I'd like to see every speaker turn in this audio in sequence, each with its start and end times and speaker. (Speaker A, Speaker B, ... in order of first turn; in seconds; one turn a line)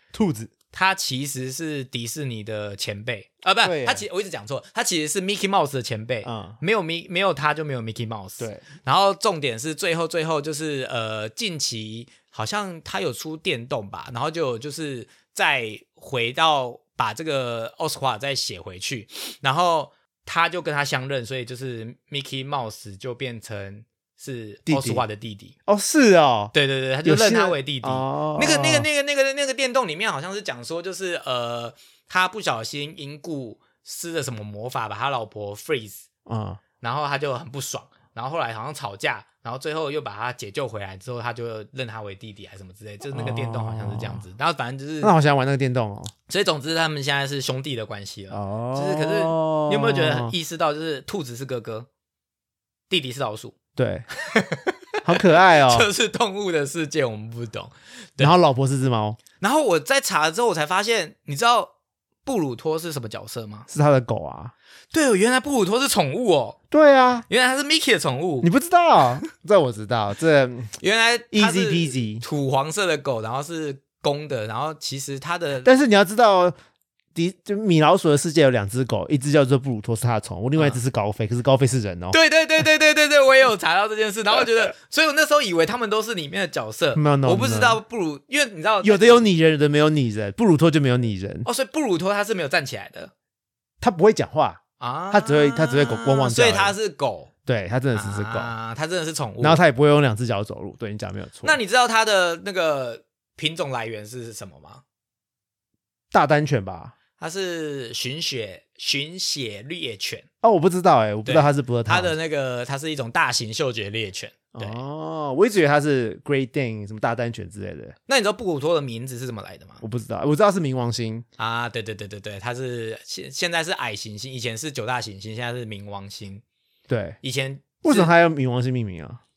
Speaker A: 0.1-0.5
Speaker B: 0.7-25.6
Speaker A: 3.6-4.0
Speaker A: 6.2-6.6
Speaker A: 8.4-8.6
Speaker A: 24.7-25.0
Speaker A: 25.7-28.9
Speaker B: 26.5-36.1
Speaker A: 36.3-36.6
Speaker B: 36.8-45.1
Speaker A: 43.1-44.2
Speaker A: 45.0-46.1
Speaker B: 46.3-51.9
Speaker A: 48.3-50.3
Speaker B: 52.9-53.5
Speaker A: 53.8-54.1
Speaker B: 54.3-58.4
Speaker A: 55.0-55.9
Speaker A: 58.2-59.2
Speaker B: 59.4-61.7
Speaker B: 62.2-63.7
Speaker A: 63.7-64.5
Speaker B: 64.9-66.6
Speaker A: 66.7-67.3
Speaker B: 67.3-68.5
Speaker A: 68.4-70.7
Speaker B: 70.8-75.7
Speaker A: 71.3-72.2
Speaker A: 75.6-76.5
Speaker A: 77.2-82.2
Speaker B: 82.1-89.3
Speaker A: 87.0-87.8
Speaker A: 88.8-91.5
Speaker B: 91.5-93.1
Speaker A: 93.8-96.8
Speaker B: 94.8-97.3
Speaker A: 97.5-98.5
Speaker B: 97.9-99.6
Speaker A: 99.4-101.6
Speaker B: 101.4-104.8
Speaker A: 106.1-106.9
Speaker B: 107.2-110.3
Speaker A: 110.4-112.1
Speaker B: 111.2-114.8
Speaker A: 114.5-118.0
Speaker B: 118.1-119.8
Speaker A: 119.8-121.2
Speaker B: 121.4-126.4
Speaker A: 126.9-127.2
Speaker B: 127.2-128.1
Speaker A: 127.8-129.2